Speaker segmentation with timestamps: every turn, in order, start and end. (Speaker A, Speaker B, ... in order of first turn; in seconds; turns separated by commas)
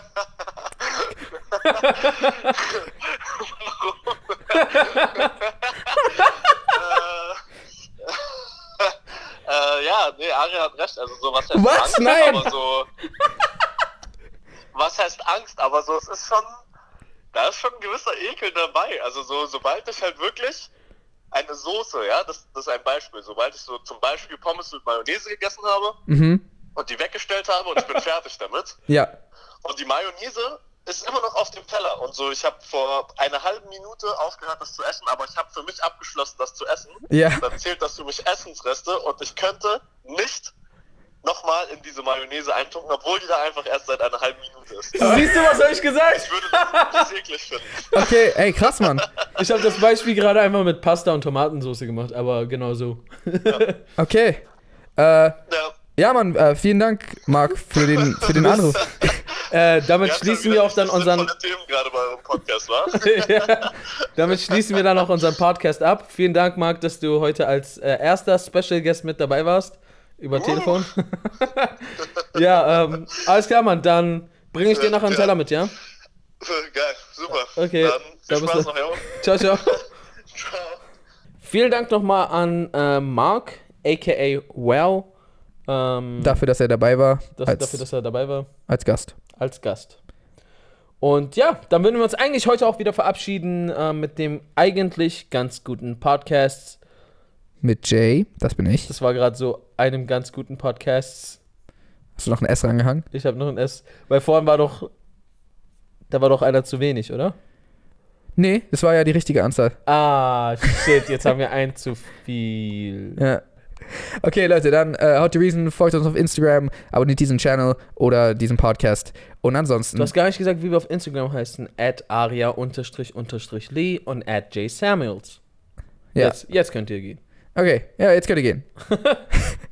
Speaker A: 0.8-7.4, Speaker B: 1.6-2.5, Speaker B: 4.5-5.3, Speaker B: 6.0-6.7, Speaker A: 8.0-12.9, Speaker C: 11.5-12.5, Speaker A: 14.7-16.5, Speaker A: 17.3-20.7, Speaker A: 21.3-26.0, Speaker C: 26.1-26.4, Speaker A: 26.8-28.8, Speaker A: 29.6-40.5, Speaker C: 37.1-37.5, Speaker A: 41.2-48.0, Speaker B: 45.0-47.1, Speaker C: 45.0-45.2, Speaker C: 47.9-49.1, Speaker A: 48.8-49.1, Speaker B: 49.3-53.8, Speaker C: 54.0-54.4, Speaker C: 55.0-55.4, Speaker A: 55.5-55.7, Speaker C: 55.9-59.2, Speaker A: 57.9-59.2, Speaker B: 58.3-61.3, Speaker A: 60.0-63.7, Speaker B: 62.9-75.7, Speaker A: 70.3-70.8, Speaker A: 74.7-75.3, Speaker A: 76.4-79.8, Speaker B: 77.5-79.8, Speaker A: 80.3-80.8, Speaker B: 81.4-85.1, Speaker B: 85.7-86.4, Speaker C: 86.2-87.8, Speaker B: 87.4-88.5, Speaker C: 88.7-89.1, Speaker B: 89.3-90.0, Speaker B: 91.0-96.8, Speaker C: 97.6-98.9, Speaker B: 98.9-101.4, Speaker C: 102.2-103.0, Speaker B: 103.1-104.9, Speaker B: 106.1-107.3, Speaker C: 108.4-109.8, Speaker B: 109.8-113.2, Speaker C: 113.2-120.1, Speaker B: 120.0-125.4, Speaker B: 126.2-127.2, Speaker C: 127.5-128.7, Speaker B: 128.9-129.2, Speaker C: 129.3-129.6